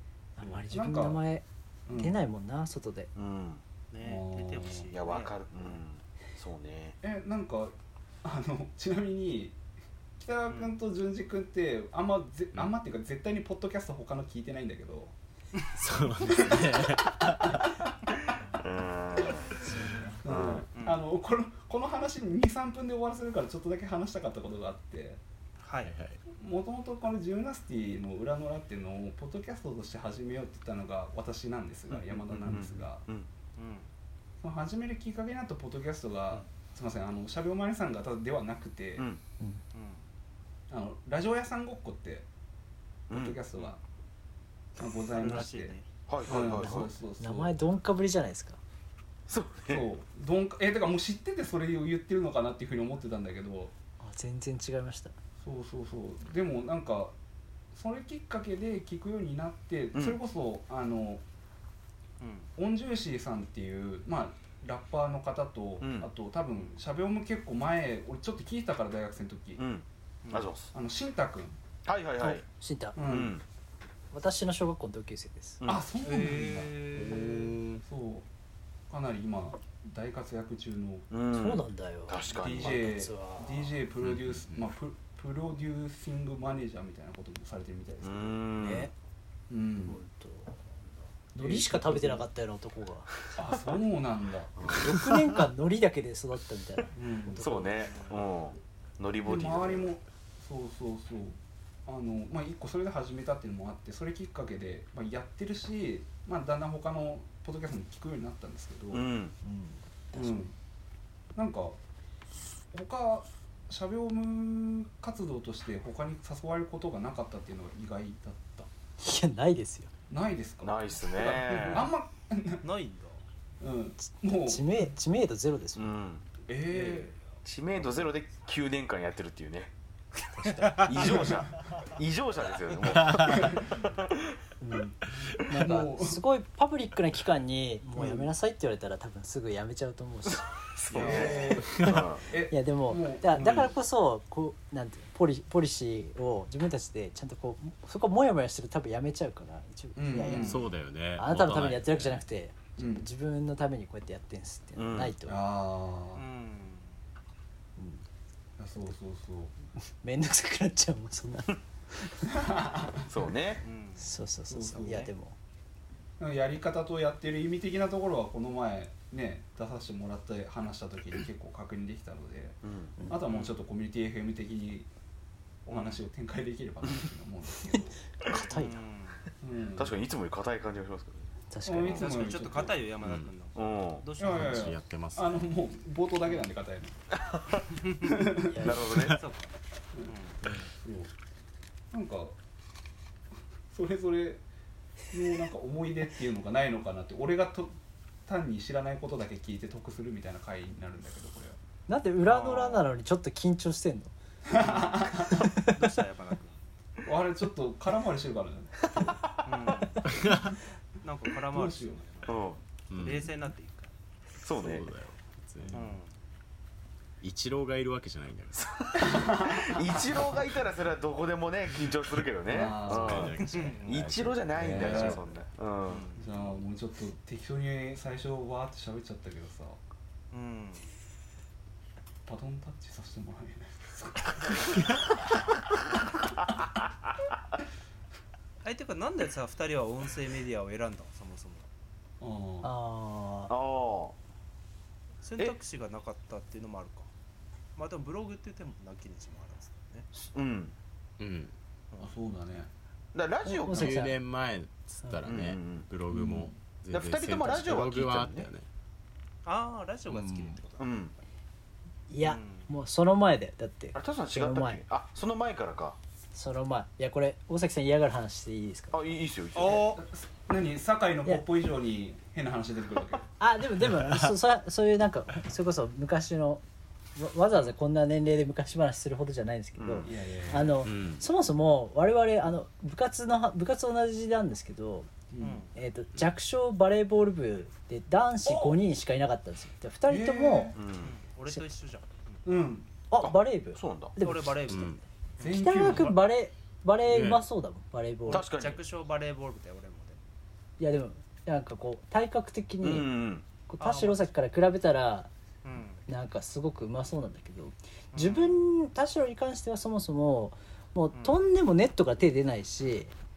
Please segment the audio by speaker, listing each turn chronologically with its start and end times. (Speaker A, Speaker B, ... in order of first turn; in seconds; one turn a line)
Speaker A: 0.4-3.1
Speaker B: 0.4-1.2
Speaker B: 1.9-2.2
Speaker C: 3.1-3.6
Speaker D: 3.9-5.8
Speaker B: 4.0-4.9
Speaker C: 4.9-7.0
Speaker B: 7.0-9.6
Speaker B: 10.2-15.1
Speaker D: 10.5-10.8
Speaker E: 15.8-17.7
Speaker B: 16.2-17.7
Speaker C: 18.6-19.6
Speaker A: 19.6-20.2
Speaker B: 20.2-25.2
Speaker C: 20.2-20.7
Speaker D: 20.7-21.0
Speaker D: 25.6-25.9
Speaker E: 25.8-26.2
Speaker B: 26.3-33.0
Speaker C: 32.3-33.3
Speaker D: 33.6-33.9
Speaker B: 34.4-39.1
Speaker C: 39.0-39.2
Speaker D: 39.7-40.0
Speaker B: 40.7-42.3
Speaker C: 43.1-43.4
Speaker B: 43.1-43.8
Speaker B: 44.8-47.6
Speaker D: 45.1-45.9
Speaker C: 46.1-46.9
Speaker A: 46.5-48.6
Speaker C: 49.3-49.9
Speaker B: 49.7-53.7
Speaker A: 54.0-55.1
Speaker B: 55.4-57.2
Speaker B: 57.7-61.2
Speaker C: 59.9-60.2
Speaker D: 62.2-62.5
Speaker B: 62.6-69.6
Speaker C: 65.8-66.1
Speaker C: 69.6-70.7
Speaker D: 70.2-70.5
Speaker B: 70.7-71.6
Speaker C: 71.9-72.5
Speaker A: 72.2-73.0
Speaker B: 73.0-73.4
Speaker C: 73.0-73.4
Speaker A: 74.1-75.6
Speaker C: 75.6-75.9
Speaker B: 75.7-78.3
Speaker D: 76.0-77.3
Speaker E: 77.0-77.8
Speaker B: 78.9-81.1
Speaker C: 81.1-82.8
Speaker A: 81.3-83.8
Speaker B: 82.3-88.4
Speaker E: 84.0-84.7
Speaker C: 88.0-88.9
Speaker A: 88.6-88.9
Speaker B: 89.5-90.0
Speaker A: 89.8-90.5
Speaker A: 91.3-93.1
Speaker B: 91.4-92.2
Speaker B: 93.3-94.7
Speaker C: 94.6-94.8
Speaker A: 94.7-97.7
Speaker B: 97.0-97.7
Speaker C: 97.3-100.0
Speaker D: 97.9-98.2
Speaker B: 99.2-109.0
Speaker C: 108.9-109.3
Speaker A: 109.4-110.5
Speaker B: 110.1-110.5
Speaker B: 111.3-111.8
Speaker B: 112.7-118.7
Speaker A: 119.0-119.9
Speaker B: 120.1-122.6
Speaker C: 120.6-121.9
Speaker D: 121.6-121.9
Speaker D: 122.6-123.2
Speaker B: 123.6-124.8
Speaker A: 124.4-125.9
Speaker C: 125.8-126.3
Speaker B: 126.5-127.1
Speaker D: 126.7-127.1
Speaker C: 127.5-129.7
Speaker A: 130.2-131.3
Speaker C: 130.8-134.3
Speaker E: 133.0-133.4
Speaker B: 133.3-133.8
Speaker A: 134.6-140.4
Speaker B: 135.5-136.2
Speaker B: 138.0-138.2
Speaker C: 140.8-142.2
Speaker B: 140.9-143.7
Speaker D: 141.0-141.4
Speaker A: 141.8-155.4
Speaker B: 149.9-150.7
Speaker E: 150.4-152.2
Speaker B: 152.8-153.1
Speaker C: 154.8-155.2
Speaker B: 155.3-156.2
Speaker D: 156.1-157.0
Speaker A: 157.8-158.0
Speaker B: 158.6-159.5
Speaker A: 160.0-161.6
Speaker B: 162.2-163.1
Speaker C: 163.1-163.6
Speaker D: 163.6-164.1
Speaker A: 164.0-165.3
Speaker B: 164.5-165.1
Speaker B: 166.2-174.9
Speaker C: 172.6-172.9
Speaker D: 173.3-173.6
Speaker B: 175.7-178.0
Speaker D: 175.7-176.0
Speaker A: 178.3-178.8
Speaker D: 178.3-179.3
Speaker B: 179.4-180.0
Speaker C: 179.8-181.3
Speaker A: 181.5-182.2
Speaker B: 181.7-182.8
Speaker D: 181.9-184.8
Speaker E: 183.0-183.3
Speaker C: 183.6-184.1
Speaker B: 184.2-187.0
Speaker E: 184.3-185.5
Speaker C: 187.2-187.6
Speaker B: 188.0-188.5
Speaker A: 188.5-188.9
Speaker C: 188.6-189.2
Speaker E: 188.9-189.2
Speaker D: 189.2-189.5
Speaker D: 190.0-190.4
Speaker B: 190.8-191.1
Speaker B: 191.9-192.4
Speaker B: 193.7-194.4
Speaker B: 195.1-201.6
Speaker A: 201.9-204.1
Speaker D: 202.2-202.9
Speaker B: 204.5-205.5
Speaker D: 205.2-206.6
Speaker A: 205.4-205.8
Speaker B: 207.1-209.2
Speaker D: 209.4-210.1
Speaker E: 210.1-210.5
Speaker D: 211.0-213.9
Speaker B: 211.5-212.0
Speaker C: 212.2-212.6
Speaker E: 212.9-213.3
Speaker C: 214.4-214.9
Speaker E: 214.6-216.0
Speaker D: 215.7-216.1
Speaker E: 217.2-218.7
Speaker C: 218.6-226.1
Speaker B: 219.0-220.4
Speaker B: 222.5-223.4
Speaker E: 222.9-225.2
Speaker D: 223.2-224.0
Speaker B: 224.6-225.3
Speaker D: 225.9-226.6
Speaker B: 226.2-229.8
Speaker D: 230.3-230.9
Speaker B: 232.3-235.1
Speaker D: 238.6-241.7
Speaker B: 242.2-242.7
Speaker A: 242.6-243.5
Speaker C: 243.5-244.2
Speaker D: 245.2-247.1
Speaker D: 247.8-250.1
Speaker C: 250.2-250.7
Speaker E: 251.2-251.5
Speaker B: 252.0-252.7
Speaker C: 253.1-254.0
Speaker A: 253.4-254.2
Speaker E: 253.7-258.7
Speaker C: 255.2-255.9
Speaker B: 256.1-256.6
Speaker C: 256.9-258.5
Speaker D: 259.4-260.9
Speaker E: 260.1-260.6
Speaker C: 260.8-261.1
Speaker A: 262.1-264.8
Speaker D: 262.2-262.7
Speaker C: 263.9-266.0
Speaker A: 266.3-269.0
Speaker C: 268.9-270.0
Speaker D: 269.6-270.0
Speaker B: 269.9-273.3
Speaker A: 273.4-276.6
Speaker E: 273.8-274.4
Speaker A: 277.2-285.1
Speaker C: 279.8-280.1
Speaker B: 280.0-280.8
Speaker E: 280.8-281.3
Speaker B: 285.3-285.7
Speaker D: 285.4-285.7
Speaker A: 285.8-290.8
Speaker B: 288.5-288.7
Speaker B: 290.1-290.8
Speaker C: 290.7-291.1
Speaker D: 291.0-292.6
Speaker B: 292.4-292.9
Speaker A: 293.1-298.5
Speaker C: 293.2-294.1
Speaker D: 294.2-296.1
Speaker E: 294.7-295.0
Speaker B: 295.4-296.2
Speaker E: 297.1-297.4
Speaker C: 298.3-298.8
Speaker D: 298.3-300.2
Speaker A: 300.8-303.1
Speaker C: 302.8-303.4
Speaker A: 303.7-305.3
Speaker D: 303.8-304.2
Speaker D: 305.6-306.0
Speaker A: 306.1-313.1
Speaker D: 308.1-308.6